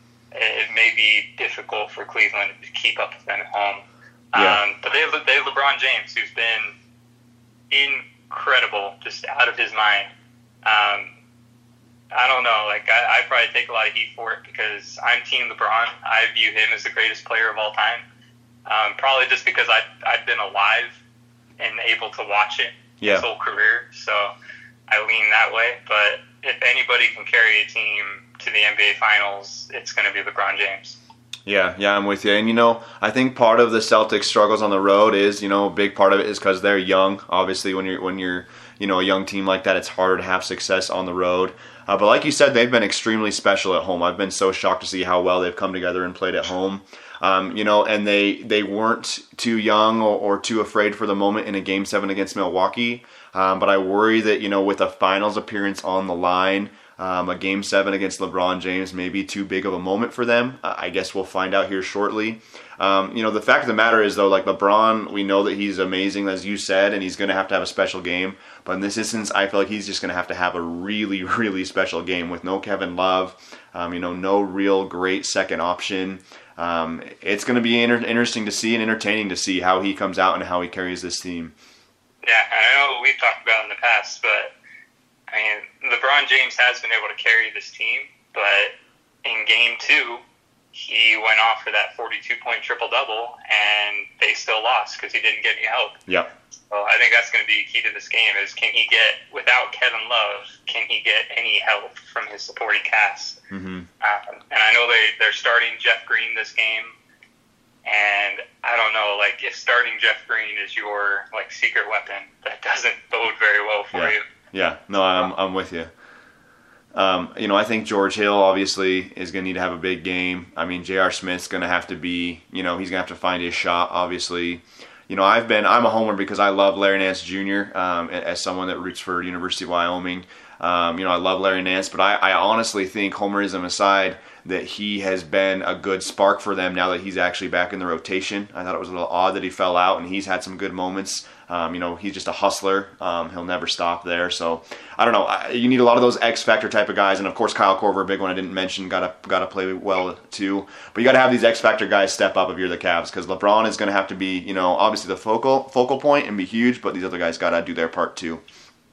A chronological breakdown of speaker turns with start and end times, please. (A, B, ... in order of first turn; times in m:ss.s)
0:00.3-0:06.7 A
0:04.3-0:04.6 B
0:07.7-0:10.1 A
0:10.6-0:11.1 A
0:12.1-0:18.0 A
0:18.6-0:21.0 A
0:21.6-0:24.3 A
0:23.0-0:23.3 B
0:24.9-0:31.0 A
0:31.4-1:21.5 B
1:22.2-1:24.5 A
1:25.3-1:28.7 A
1:29.2-1:30.2 A
1:30.7-1:36.0 A
1:36.7-1:43.4 A
1:43.5-1:43.9 B
1:44.0-1:46.9 A
1:47.8-1:54.2 A
1:53.9-1:55.9 B
1:56.9-2:38.4 B